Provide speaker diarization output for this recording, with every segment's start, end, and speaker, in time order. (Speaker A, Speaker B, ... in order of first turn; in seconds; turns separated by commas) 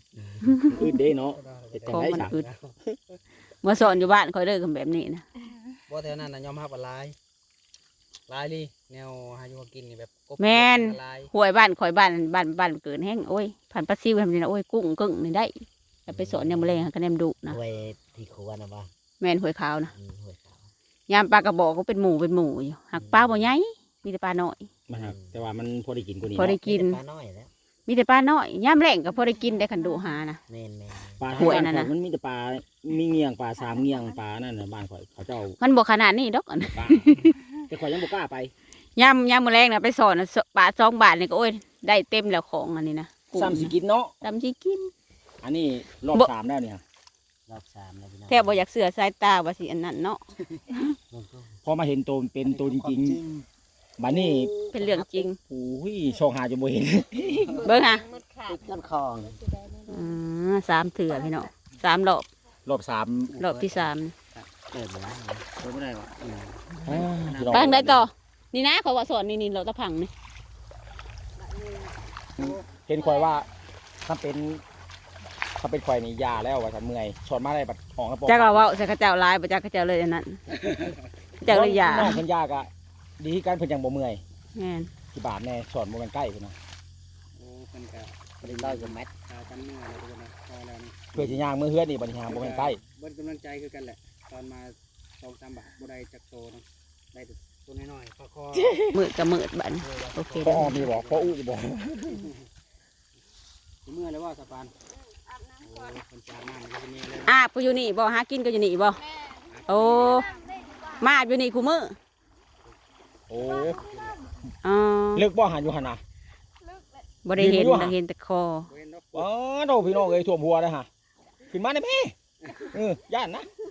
Speaker A: 0.2-0.7, Speaker B: 0.7-2.7, Speaker C: 0.7-2.4, Speaker D: 1.9-2.4, Speaker D: 3.6-5.2, Speaker B: 5.9-7.2, Speaker B: 8.3-11.3, Speaker D: 10.4-17.6, Speaker A: 16.1-16.9, Speaker A: 17.5-18.9, Speaker D: 19.2-19.9, Speaker A: 19.9-20.7, Speaker D: 21.1-24.7, Speaker A: 22.9-23.5, Speaker C: 24.9-26.6, Speaker A: 24.9-25.4, Speaker D: 26.4-27.0, Speaker A: 26.5-27.5, Speaker D: 27.9-30.4, Speaker A: 30.5-31.6, Speaker C: 31.2-35.6, Speaker D: 31.4-31.9, Speaker D: 35.6-37.4, Speaker C: 36.8-38.5, Speaker D: 39.0-44.9, Speaker C: 43.3-44.1, Speaker C: 45.4-46.8, Speaker A: 47.5-48.6, Speaker D: 48.3-50.2, Speaker A: 51.1-51.6, Speaker C: 51.6-53.2, Speaker A: 52.4-53.5, Speaker C: 54.0-54.5, Speaker A: 54.1-55.2, Speaker D: 54.7-55.4, Speaker C: 55.5-57.4, Speaker A: 57.3-57.6, Speaker E: 57.5-58.7, Speaker D: 57.6-58.0, Speaker A: 58.4-59.4, Speaker E: 59.2-60.1, Speaker D: 59.9-62.3, Speaker C: 62.7-63.4, Speaker B: 63.3-64.5, Speaker D: 63.4-64.1, Speaker A: 64.6-66.2, Speaker B: 65.9-67.7, Speaker C: 66.8-68.1, Speaker D: 67.5-70.1, Speaker B: 71.4-72.7, Speaker C: 72.8-73.5, Speaker C: 74.0-74.6, Speaker C: 75.6-78.7, Speaker D: 78.3-80.4, Speaker B: 80.6-81.0, Speaker D: 81.4-82.2, Speaker C: 81.5-84.2, Speaker D: 84.5-84.9, Speaker C: 85.1-86.6, Speaker B: 87.3-91.4, Speaker A: 88.4-89.1, Speaker C: 91.1-92.8, Speaker B: 92.3-98.9, Speaker C: 98.5-98.9, Speaker D: 98.9-100.9, Speaker B: 99.8-101.4, Speaker C: 100.4-102.3, Speaker B: 103.8-104.7, Speaker E: 105.2-105.9, Speaker B: 105.6-107.3, Speaker D: 107.3-109.0, Speaker E: 109.3-111.1, Speaker B: 109.5-110.4, Speaker D: 109.7-110.3, Speaker D: 111.0-112.0, Speaker C: 113.3-113.9, Speaker B: 113.3-114.3, Speaker D: 114.6-115.3, Speaker C: 115.2-116.0, Speaker D: 117.2-118.7, Speaker C: 117.4-118.0, Speaker B: 118.7-119.3, Speaker C: 119.1-120.9, Speaker C: 121.5-122.1, Speaker B: 122.4-122.8, Speaker C: 122.7-123.5